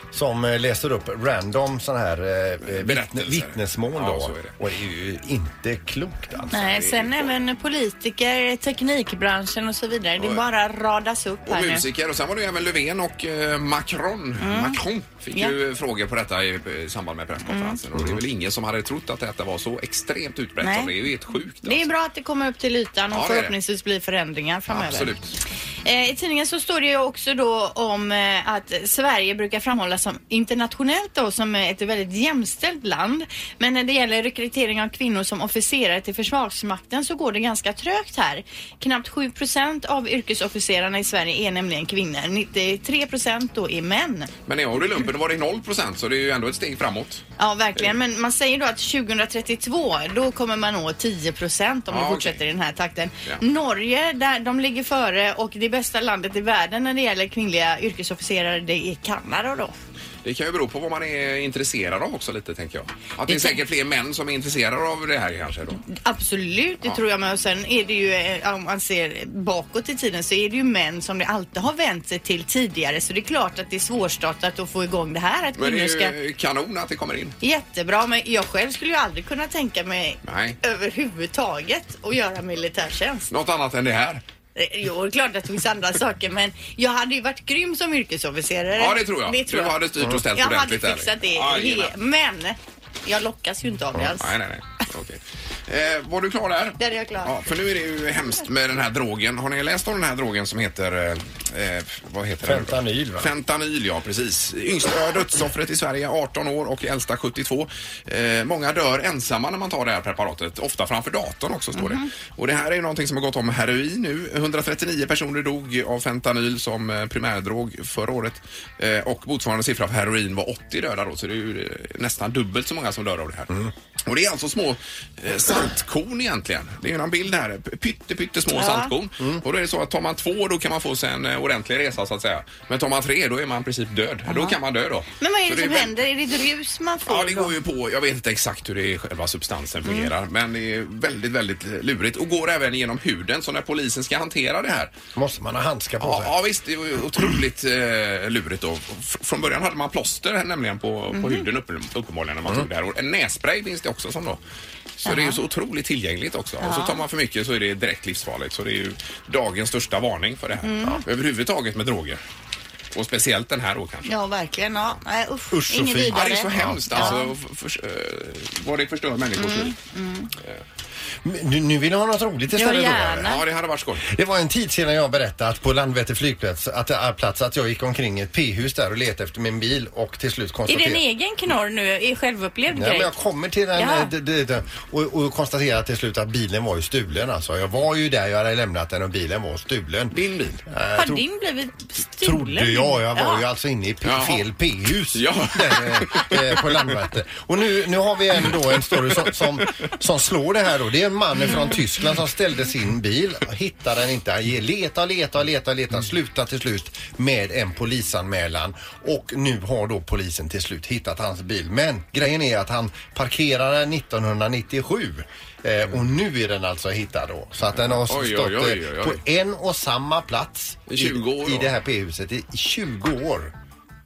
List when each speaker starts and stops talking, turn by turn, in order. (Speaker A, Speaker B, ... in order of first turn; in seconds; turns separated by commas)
Speaker A: 0.1-6.6, Speaker B: 2.6-4.5, Speaker C: 6.5-11.9, Speaker B: 6.5-7.3, Speaker B: 10.2-10.4, Speaker B: 11.5-21.9, Speaker C: 14.4-14.8, Speaker C: 17.5-17.8, Speaker C: 20.6-20.9, Speaker C: 21.6-25.1, Speaker B: 23.1-23.6, Speaker B: 24.7-25.4, Speaker C: 25.9-44.3, Speaker B: 44.5-47.2, Speaker C: 47.4-59.8, Speaker B: 51.9-52.4, Speaker B: 60.2-65.8, Speaker C: 63.3-63.6, Speaker C: 65.9-76.2, Speaker B: 75.6-77.4, Speaker C: 77.4-83.3, Speaker B: 80.2-80.6, Speaker B: 83.3-84.2, Speaker C: 84.5-94.3, Speaker B: 88.8-91.9, Speaker B: 94.2-123.5, Speaker C: 96.8-97.4, Speaker A: 102.4-103.3, Speaker C: 111.8-112.1, Speaker B: 124.1-135.9, Speaker C: 128.5-128.9, Speaker C: 134.3-134.6, Speaker C: 135.2-137.6, Speaker B: 137.1-144.9, Speaker C: 139.9-140.1, Speaker A: 145.2-146.3, Speaker B: 146.0-154.4, Speaker C: 151.1-151.5, Speaker B: 155.0-162.2, Speaker C: 155.1-155.4, Speaker C: 156.6-157.0, Speaker C: 160.6-161.0, Speaker B: 162.9-164.1, Speaker C: 164.1-167.3, Speaker A: 165.5-167.2, Speaker B: 166.1-169.8, Speaker C: 169.4-170.3, Speaker A: 171.2-173.3, Speaker C: 172.6-173.4, Speaker B: 173.2-174.1, Speaker A: 174.0-181.1, Speaker C: 180.7-183.1, Speaker A: 182.7-191.2, Speaker C: 183.8-184.1, Speaker B: 190.1-190.6, Speaker C: 191.0-193.4, Speaker A: 192.2-223.5, Speaker B: 194.1-194.5, Speaker B: 195.1-197.0, Speaker B: 198.5-199.0, Speaker B: 217.8-219.2, Speaker B: 220.9-221.8